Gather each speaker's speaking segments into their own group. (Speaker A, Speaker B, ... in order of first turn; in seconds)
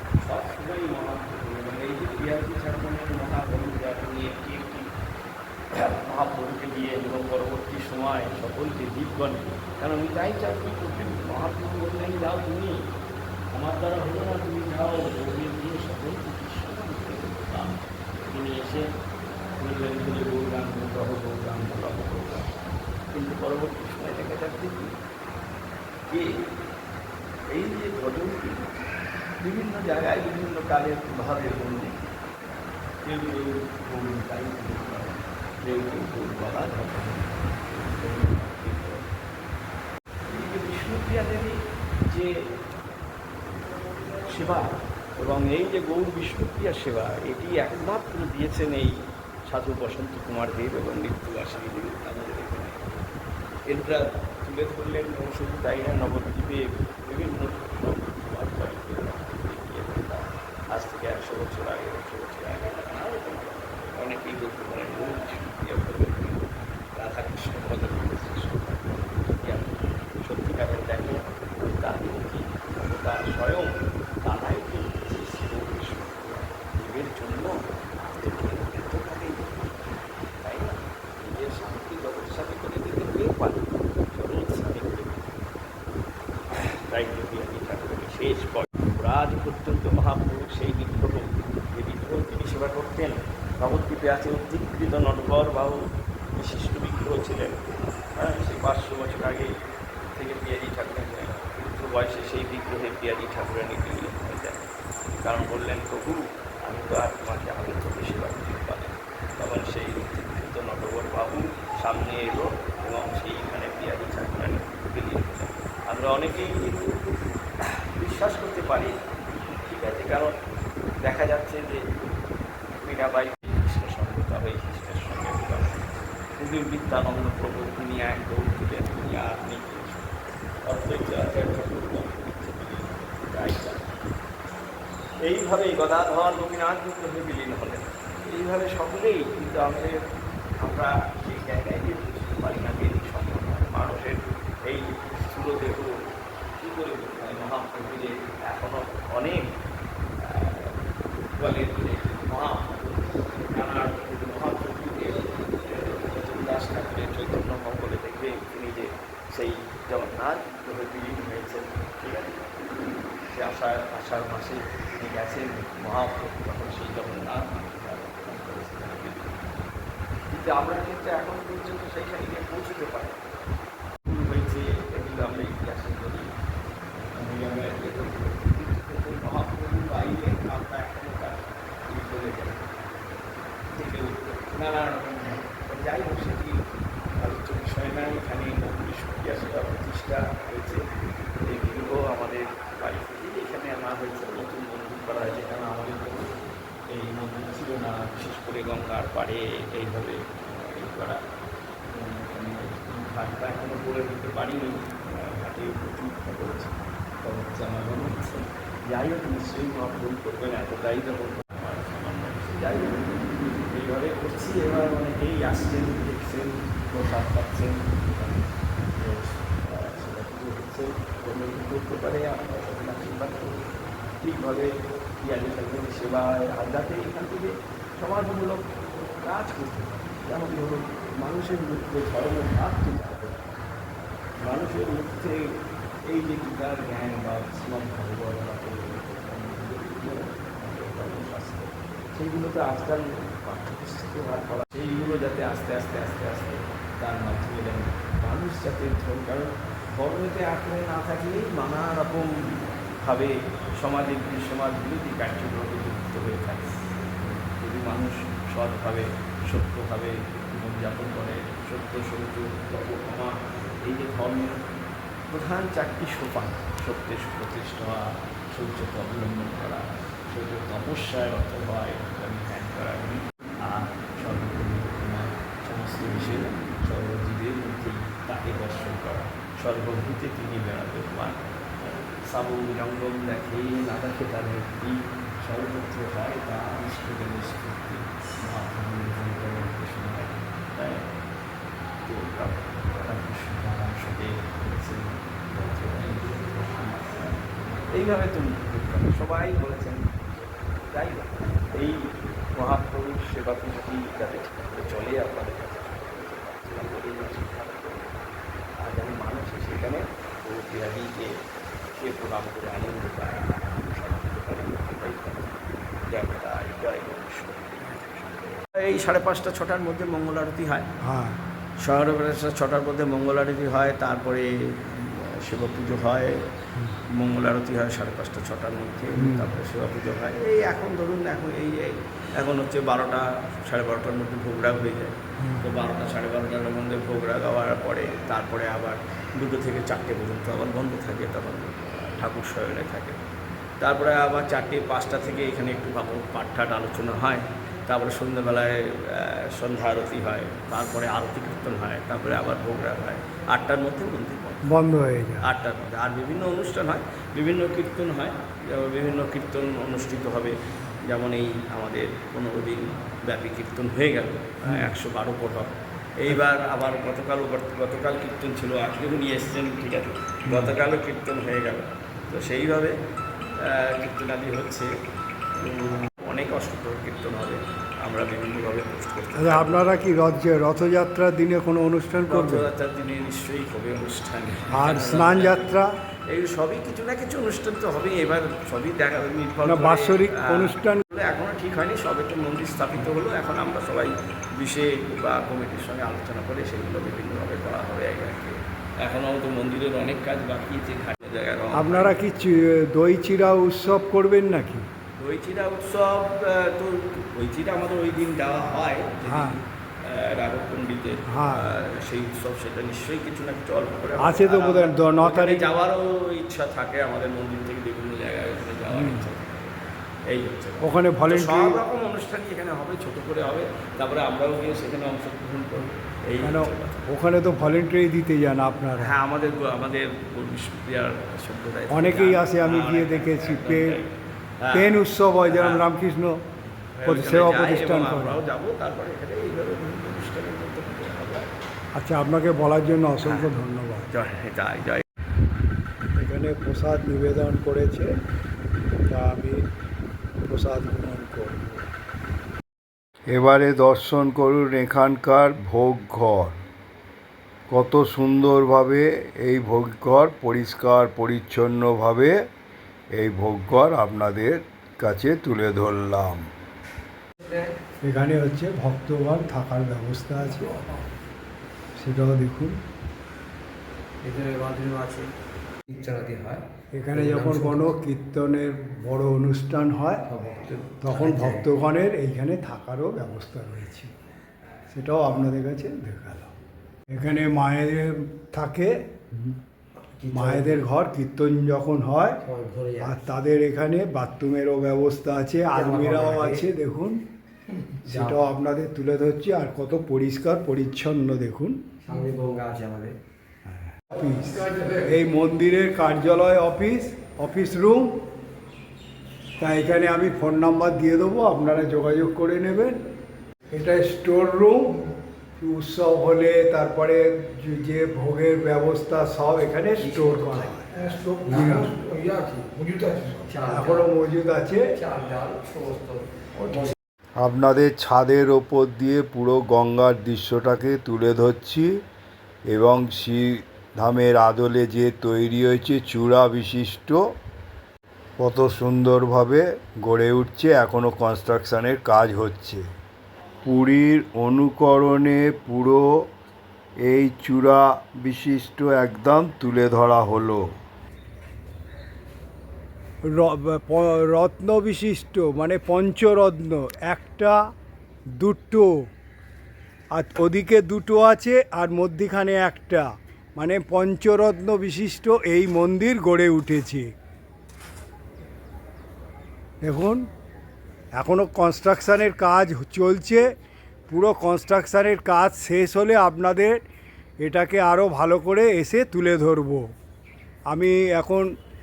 Speaker A: 0.2-4.9, 5.7-12.9, 13.5-18.9, 19.6-22.5, 23.1-24.9, 26.1-26.4, 27.5-28.7, 29.4-32.0, 33.0-39.1, 40.2-42.5, 44.0-53.0, 53.7-85.4, 86.5-99.5, 100.2-104.6, 105.2-119.1, 119.6-120.3, 121.0-122.1, 122.8-130.1, 130.6-133.8, 135.2-140.0, 140.6-146.0, 146.6-149.5, 150.2-150.8, 151.3-169.5, 170.3-173.3, 174.1-176.3, 177.1-182.8, 183.7-186.6, 187.2-190.9, 191.4-196.3, 196.9-201.2, 201.8-223.6, 224.2-233.4, 234.4-264.6, 265.3-291.1, 292.0-308.2, 308.8-311.3, 311.9-320.9, 321.8-326.5, 327.1-343.2, 343.8-354.7, 355.4-373.0, 373.6-374.9, 375.6-380.1, 382.3-385.8, 386.3-402.2, 405.2-427.0, 429.0-435.9, 436.8-441.5, 443.2-443.5, 444.1-445.1
Speaker B: 321.0-321.4, 329.2-329.5, 354.7-355.4, 364.6-365.0, 370.5-370.7, 379.3-382.7, 384.7-385.9, 389.7-391.0, 401.7-404.9, 409.3-409.6, 411.3-411.7, 414.2-415.7, 418.9-419.3, 420.8-421.8, 426.4-429.1, 431.9-434.0, 434.7-436.4, 437.1-438.4, 441.9-444.1, 446.2-448.1, 449.1-449.7, 450.4-451.8, 468.0-470.7, 472.0-472.8, 477.0-480.2, 481.0-484.1, 484.9-486.5, 487.1-489.5, 490.3-492.4, 493.0-497.2, 498.0-501.8, 504.1-508.2, 509.6-513.0, 513.7-520.9, 521.5-521.9, 523.6-525.0, 553.2-557.7, 558.3-559.1, 560.1-567.1, 569.8-570.2, 571.1-573.5, 574.1-576.8, 577.4-579.9, 580.7-581.5
Speaker C: 453.3-456.6, 457.7-462.4, 463.1-466.5, 527.4-532.0, 532.7-537.2, 538.4-542.8, 543.6-546.2, 547.0-550.7
Speaker D: 467.4-467.8, 470.6-471.1, 474.2-475.3, 475.9-477.9, 480.3-481.7, 490.2-490.8, 492.4-493.3, 495.8-496.7, 498.0-498.4, 502.0-503.2, 504.1-505.1, 520.0-524.1, 524.7-527.0